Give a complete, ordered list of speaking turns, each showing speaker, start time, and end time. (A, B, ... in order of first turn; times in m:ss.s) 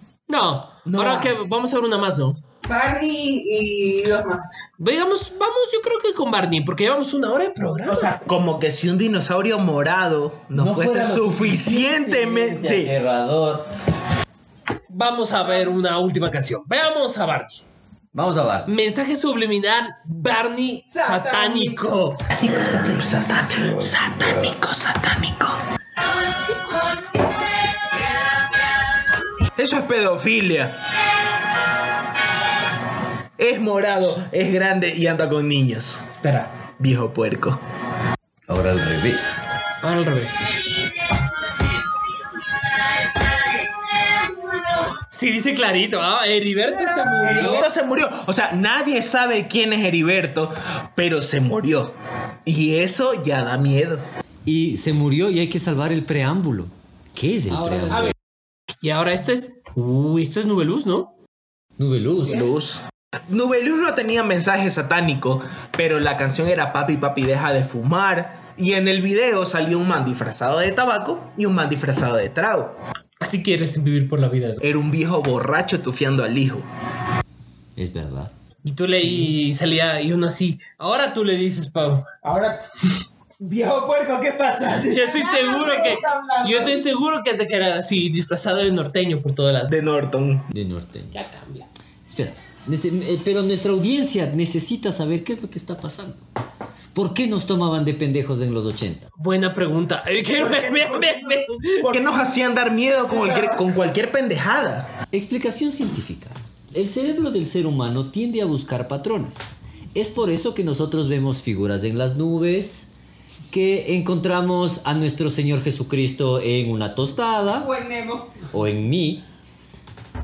0:00.3-0:02.4 A
0:00.9-0:01.3 B
0:02.6-0:04.5 C
0:04.8-0:08.1 A
0:07.8-0:08.2 B
0:08.1-0:12.9 D
0:10.5-0:13.7 E
0:14.9-0:17.6 A
0:15.4-0:15.8 C
0:18.1-0:18.7 E
0:18.7-0:22.3 A
0:21.0-0:21.6 C
0:21.2-0:21.6 B
0:22.4-0:25.6 D
0:29.6-0:30.8 D
0:33.4-0:37.6 D
0:38.5-0:39.6 E
0:39.8-0:40.5 A
0:45.1-0:47.7 A
0:47.1-0:51.9 D
0:47.1-0:47.6 B
0:52.4-0:54.0 D
0:54.5-0:58.2 E
0:57.7-0:57.9 A
0:57.9-0:58.1 B
0:58.8-1:01.1 A
1:01.8-1:02.4 E
1:02.2-1:12.8 D
1:13.2-1:14.6 A
1:14.6-1:16.6 D
1:17.8-1:18.3 E
1:18.6-1:22.1 A
1:18.9-1:19.3 E
1:22.2-1:22.6 B
1:23.4-1:26.8 B
1:24.8-1:29.7 A
1:29.7-1:30.5 D
1:30.5-1:31.2 E
1:31.1-1:31.7 A
1:32.1-1:36.3 E
1:36.9-1:39.1 E
1:39.2-1:41.9 A
1:40.4-1:42.2 B
1:41.9-1:44.9 D
1:45.1-1:52.9 E
1:53.5-1:57.7 E
1:57.6-1:58.4 C
1:58.5-1:59.3 E